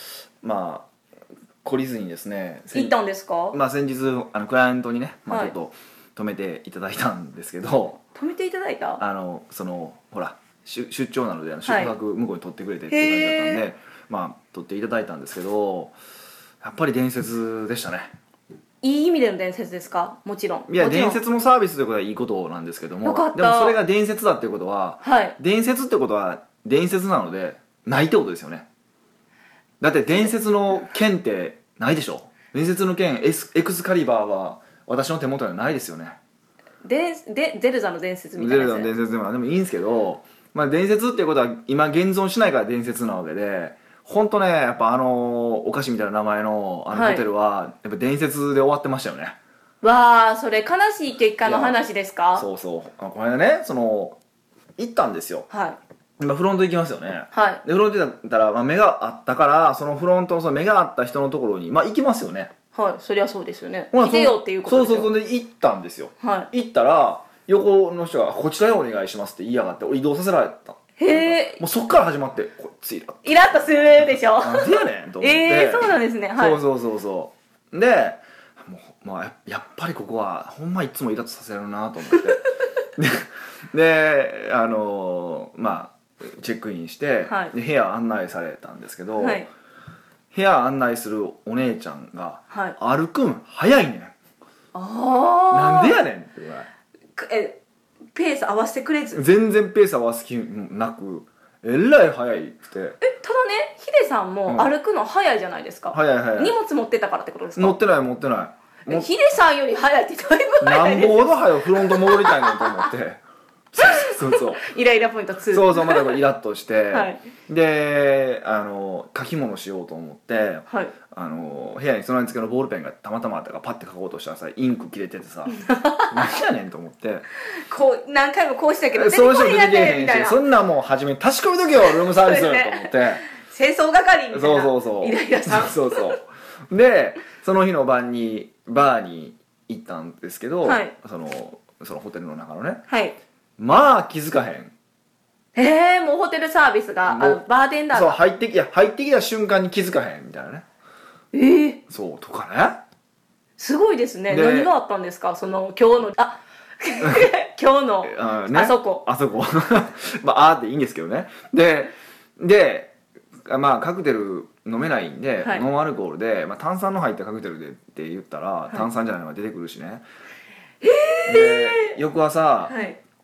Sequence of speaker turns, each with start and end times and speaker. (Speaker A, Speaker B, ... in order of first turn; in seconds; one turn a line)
Speaker A: 0.4-0.9
Speaker A: 1.6-2.9
Speaker B: 2.7-3.6
Speaker A: 3.5-8.0
Speaker B: 5.3-5.5
Speaker B: 8.1-9.0
Speaker A: 9.0-15.9
Speaker B: 11.7-11.9
Speaker B: 12.9-13.6
Speaker A: 16.6-18.1
Speaker B: 18.8-21.2
Speaker A: 20.7-28.7
Speaker B: 23.0-23.8
Speaker B: 25.0-25.4
Speaker A: 29.8-36.2
Speaker B: 36.8-38.9
Speaker A: 38.4-49.4
Speaker B: 46.9-47.2
Speaker B: 49.8-52.5
Speaker A: 51.4-51.8
Speaker A: 52.3-54.2
Speaker A: 54.8-55.5
Speaker B: 55.5-55.8
Speaker A: 56.2-62.5
Speaker B: 57.3-57.6
Speaker B: 62.7-65.1
Speaker A: 63.9-89.5
Speaker B: 66.2-66.5
Speaker B: 71.0-71.6
Speaker B: 73.2-76.6
Speaker B: 87.2-87.5
Speaker B: 89.2-89.5
Speaker A: 90.3-94.1
Speaker B: 92.5-92.8
Speaker B: 94.7-96.0
Speaker A: 95.5-96.7
Speaker B: 97.2-97.6
Speaker B: 98.1-99.2
Speaker A: 99.1-103.0
Speaker B: 103.0-107.8
Speaker A: 105.9-106.5
Speaker A: 107.5-109.1
Speaker B: 108.9-112.9
Speaker A: 110.6-113.2
Speaker A: 113.7-114.7
Speaker B: 113.8-116.2
Speaker A: 115.5-127.2
Speaker B: 116.9-117.2
Speaker B: 120.7-120.9
Speaker B: 125.5-126.3
Speaker B: 127.4-130.4
Speaker A: 128.9-133.3
Speaker B: 131.9-136.2
Speaker A: 134.3-142.8
Speaker B: 140.6-140.9
Speaker B: 142.9-143.2
Speaker A: 143.6-144.7
Speaker B: 145.5-148.2
Speaker A: 147.1-150.6
Speaker B: 151.3-151.8
Speaker A: 151.9-152.8
Speaker B: 153.6-159.0
Speaker A: 154.3-154.7
Speaker A: 157.0-157.3
Speaker A: 158.0-162.9
Speaker A: 163.4-170.0
Speaker B: 170.8-172.0
Speaker A: 171.2-172.7
Speaker B: 172.7-173.0